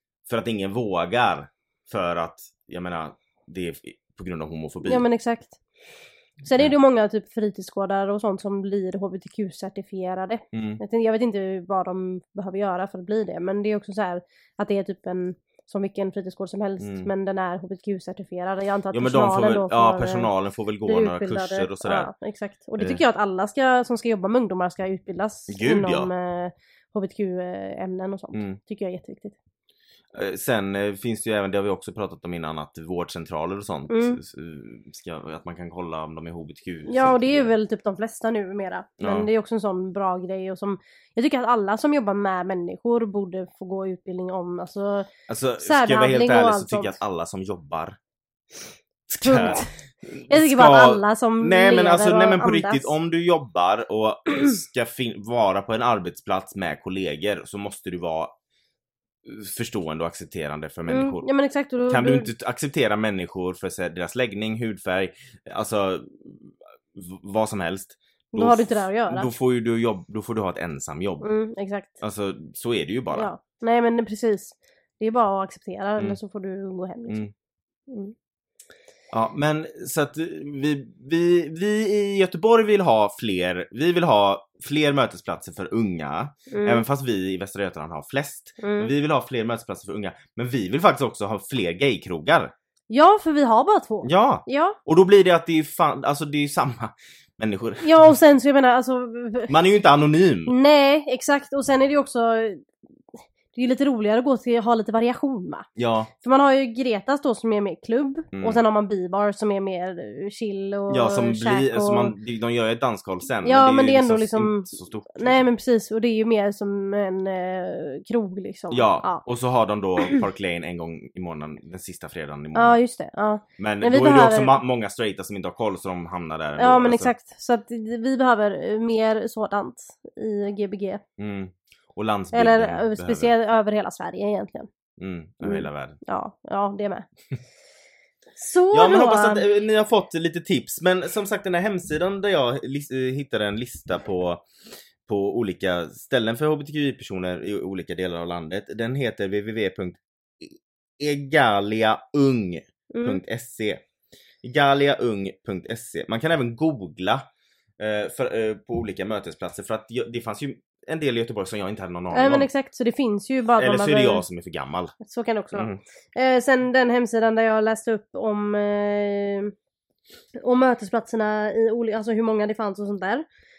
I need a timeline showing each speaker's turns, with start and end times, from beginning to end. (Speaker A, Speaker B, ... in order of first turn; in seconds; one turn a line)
Speaker A: 0.2-5.0
Speaker B: 4.8-5.6
Speaker B: 6.4-20.3
Speaker A: 10.5-10.8
Speaker A: 16.8-17.1
Speaker A: 18.9-22.1
Speaker B: 20.9-29.4
Speaker A: 25.5-26.1
Speaker A: 28.3-28.6
Speaker A: 30.1-37.5
Speaker B: 33.9-34.2
Speaker B: 36.9-45.1
Speaker A: 39.0-39.3
Speaker A: 45.3-48.0
Speaker B: 45.6-47.0
Speaker A: 49.1-58.3
Speaker B: 49.2-49.8
Speaker B: 50.3-52.9
Speaker A: 59.2-61.3
Speaker B: 60.9-62.3
Speaker A: 61.9-71.3
Speaker B: 68.3-69.3
Speaker B: 71.2-71.9
Speaker A: 72.0-73.3
Speaker B: 73.1-77.2
Speaker B: 77.9-78.1
Speaker A: 79.1-92.5
Speaker B: 86.5-86.8
Speaker B: 88.6-88.9
Speaker B: 92.9-94.8
Speaker A: 94.0-98.1
Speaker B: 97.8-99.5
Speaker A: 99.5-100.5
Speaker B: 100.5-102.7
Speaker B: 103.5-105.7
Speaker A: 105.8-106.1
Speaker B: 106.2-112.1
Speaker A: 108.3-108.6
Speaker A: 110.9-115.5
Speaker B: 113.4-119.2
Speaker A: 118.7-122.8
Speaker B: 122.5-124.6
Speaker A: 123.6-127.1
Speaker B: 126.6-131.0
Speaker A: 131.2-133.3
Speaker B: 132.3-134.7
Speaker A: 135.0-136.0
Speaker B: 135.4-137.1
Speaker B: 138.4-139.4
Speaker A: 138.7-144.4
Speaker A: 145.1-153.8
Speaker B: 152.9-153.2
Speaker A: 154.4-157.2
Speaker A: 157.8-162.5
Speaker B: 162.1-164.2
Speaker A: 163.6-164.9
Speaker B: 165.0-169.5
Speaker A: 165.5-165.8
Speaker B: 170.4-173.2